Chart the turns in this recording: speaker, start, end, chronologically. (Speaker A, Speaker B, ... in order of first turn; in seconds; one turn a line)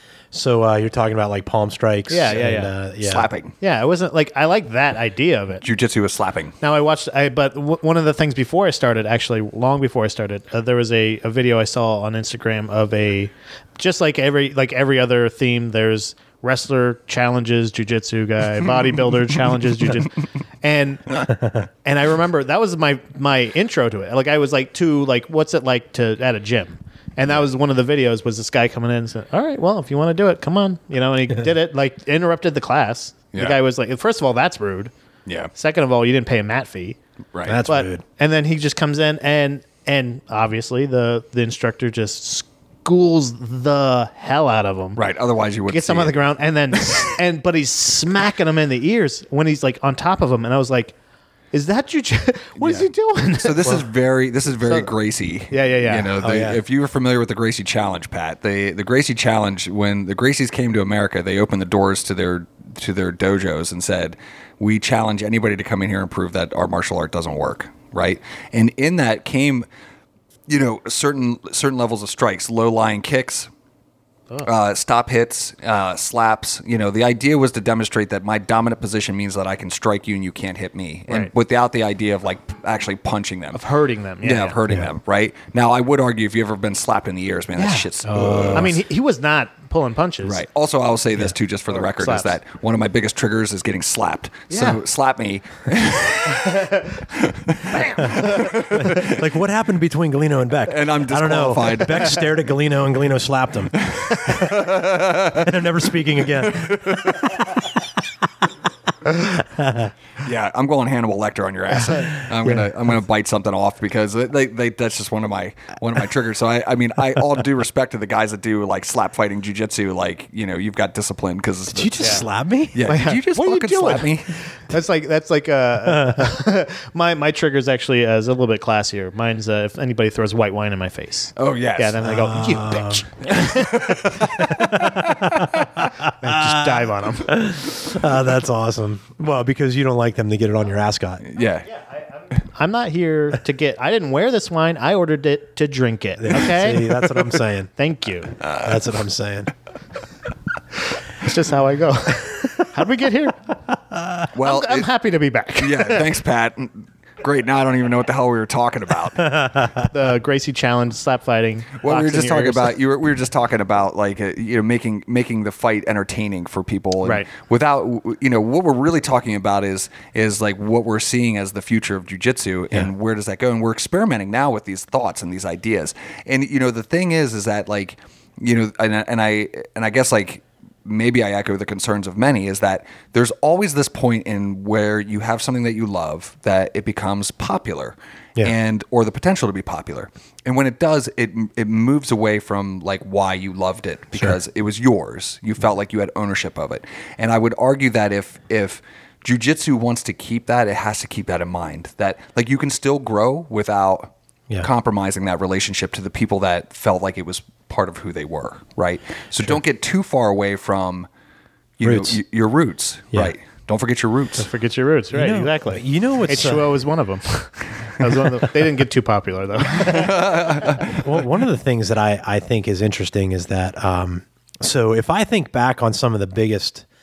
Speaker A: 0.3-3.3
Speaker B: 2.1-2.7
Speaker C: 3.0-3.5
Speaker B: 3.6-5.6
Speaker C: 5.6-6.5
Speaker B: 6.6-34.9
Speaker C: 33.3-33.6
Speaker B: 35.5-37.0
Speaker C: 37.3-37.6
Speaker A: 37.5-38.0
Speaker B: 37.7-45.0
Speaker C: 45.0-46.1
Speaker B: 45.7-50.9
Speaker B: 51.5-53.8
Speaker C: 52.6-69.7
Speaker B: 54.6-54.9
Speaker B: 55.5-56.2
Speaker A: 56.2-56.6
Speaker C: 70.5-73.5
Speaker C: 74.4-83.6
Speaker B: 83.5-84.6
Speaker C: 84.2-88.8
Speaker B: 87.6-87.9
Speaker A: 88.0-88.8
Speaker B: 88.5-90.4
Speaker C: 90.2-99.2
Speaker B: 91.7-92.3
Speaker B: 94.5-94.8
Speaker B: 96.4-96.8
Speaker B: 97.8-98.4
Speaker A: 98.7-107.6
Speaker C: 100.7-102.3
Speaker C: 103.8-105.5
Speaker C: 106.4-107.4
Speaker A: 109.2-109.9
Speaker C: 110.2-124.4
Speaker A: 121.7-122.8
Speaker B: 122.9-134.7
Speaker A: 125.9-126.2
Speaker C: 131.4-132.1
Speaker A: 132.0-133.1
Speaker C: 133.2-135.5
Speaker A: 134.3-141.2
Speaker B: 136.0-137.5
Speaker C: 141.2-141.7
Speaker B: 141.7-147.2
Speaker A: 146.2-147.7
Speaker B: 147.8-148.3
Speaker A: 148.5-149.5
Speaker B: 151.1-153.5
Speaker C: 154.3-154.9
Speaker B: 154.4-156.1
Speaker C: 155.6-159.6
Speaker B: 159.8-162.8
Speaker C: 161.8-211.1
Speaker C: 211.8-214.5
Speaker A: 211.8-212.2
Speaker B: 214.4-220.8
Speaker A: 215.1-216.7
Speaker C: 219.8-221.1
Speaker A: 220.9-226.8